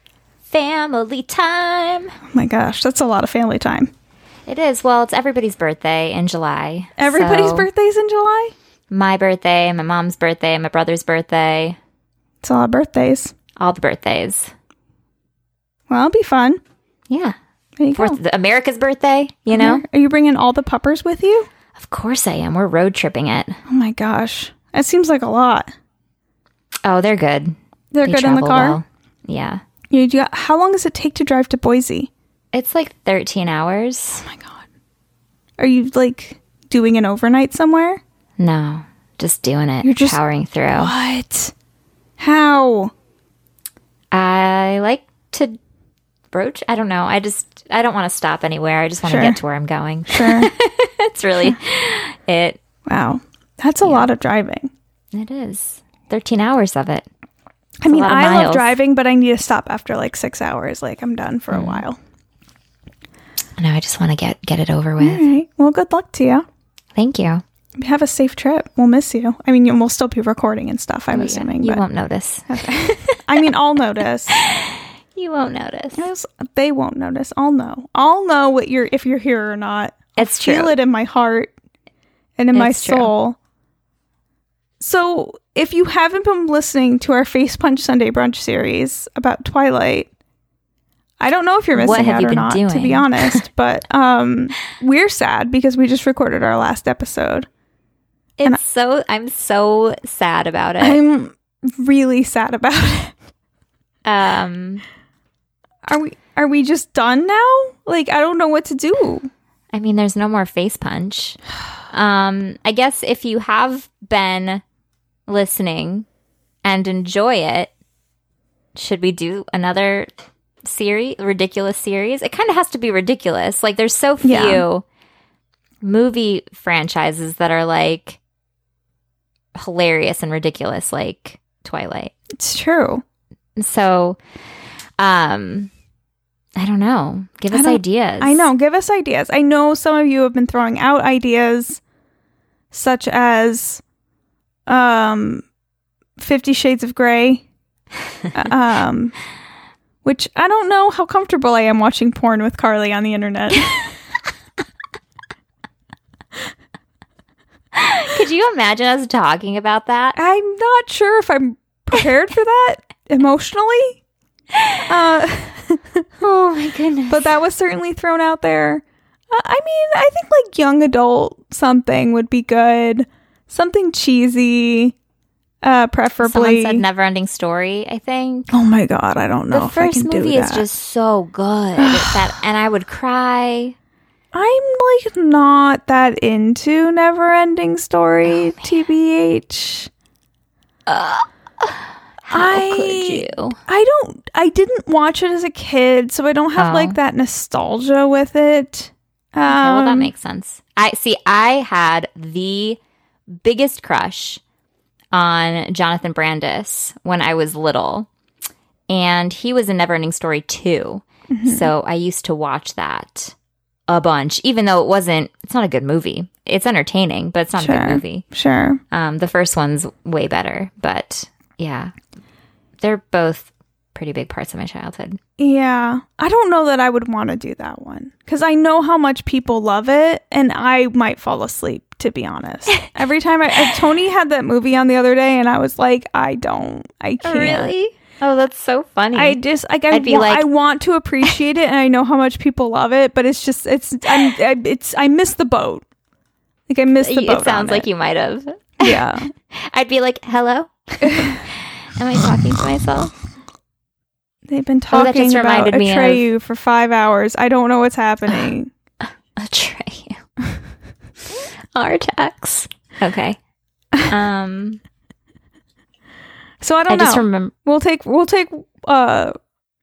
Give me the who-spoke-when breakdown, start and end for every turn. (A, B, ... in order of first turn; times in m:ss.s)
0:00.5-0:02.1 A
0:02.3-0:03.9 B
0:04.5-0:07.7 A
0:07.0-0:08.5 B
0:08.9-0:11.8 A
0:12.4-0:13.3 B
0:13.6-0:14.5 A
0:15.9-0:16.6 B
0:17.1-0:17.4 A
0:17.8-0:18.2 B
0:17.9-0:19.8 A
0:19.5-0:21.5 B
0:21.7-0:23.6 A
0:23.7-0:25.7 B
0:26.8-0:29.6 A
0:27.9-0:28.8 B
0:29.9-0:32.1 B
0:32.5-0:34.3 A
0:34.2-0:34.6 B
0:35.6-0:38.0 B
0:38.4-0:40.9 A
0:39.8-0:40.2 B
0:40.7-0:41.5 B
0:42.2-0:42.9 B
0:44.1-0:45.6 A
0:46.3-0:52.6 A
0:49.0-0:49.4 B
0:50.1-0:50.5 B
0:52.9-0:54.7 B
0:53.8-0:54.1 A
0:55.1-0:57.0 A
0:57.8-1:02.0 B
0:57.9-0:58.7 A
1:01.5-1:01.8 A
1:03.6-1:05.3 A
1:05.0-1:06.4 B
1:07.0-1:07.4 A
1:07.8-1:11.8 B
1:11.1-1:13.2 A
1:12.5-1:14.4 B
1:14.3-1:16.1 A
1:16.0-1:21.5 B
1:20.2-1:20.8 A
1:22.4-1:23.4 B
1:22.5-1:23.1 A
1:24.8-1:30.1 B
1:31.2-1:37.5 B
1:31.7-1:33.4 A
1:38.4-1:41.0 A
1:40.8-1:43.1 B
1:44.0-1:44.8 A
1:45.9-1:49.3 B
1:49.7-1:51.4 A
1:51.9-1:54.6 A
1:55.3-1:56.0 A
1:56.6-1:57.7 A
1:58.7-2:00.1 A
2:00.6-2:04.8 A
2:04.2-2:04.6 B
2:05.8-2:08.2 A
2:09.6-2:12.1 A
2:12.4-2:13.0 B
2:13.6-2:14.2 A
2:15.0-2:15.7 A
2:16.6-2:18.4 A
2:17.5-2:21.8 B
2:22.7-2:23.8 B
2:24.7-2:25.4 B
2:26.2-2:27.4 B
2:28.3-2:29.1 B
2:30.0-2:33.9 B
2:37.7-2:40.2 A
2:40.1-2:44.0 B
2:44.5-2:44.8 A
2:44.9-2:46.0 B
2:46.2-2:47.3 A
2:47.1-2:55.0 B
2:55.6-2:56.8 B
2:56.2-2:58.6 A
2:58.5-3:00.7 B
2:59.5-3:03.8 A
3:01.8-3:02.2 B
3:04.3-3:09.9 B
3:08.3-3:08.7 A
3:10.9-3:13.6 A
3:12.3-3:20.1 B
3:16.6-3:17.0 A
3:19.4-3:22.8 A
3:23.4-3:24.4 A
3:25.1-3:28.1 A
3:28.9-3:33.3 A
3:31.3-3:31.7 B
3:33.9-3:38.2 A
3:37.6-3:38.8 B
3:38.9-3:41.9 A
3:42.8-3:45.2 A
3:45.4-3:57.7 B
3:57.2-3:59.4 A
3:59.1-4:05.8 B
3:59.9-4:00.5 A
4:06.7-4:07.9 B
4:07.0-4:13.1 A
4:08.8-4:09.3 B
4:11.0-4:11.4 B
4:14.5-4:18.7 B
4:14.9-4:16.3 A
4:19.0-4:20.2 A
4:21.3-4:23.4 A
4:24.0-4:24.8 A
4:26.6-4:29.3 B
4:26.9-4:27.5 A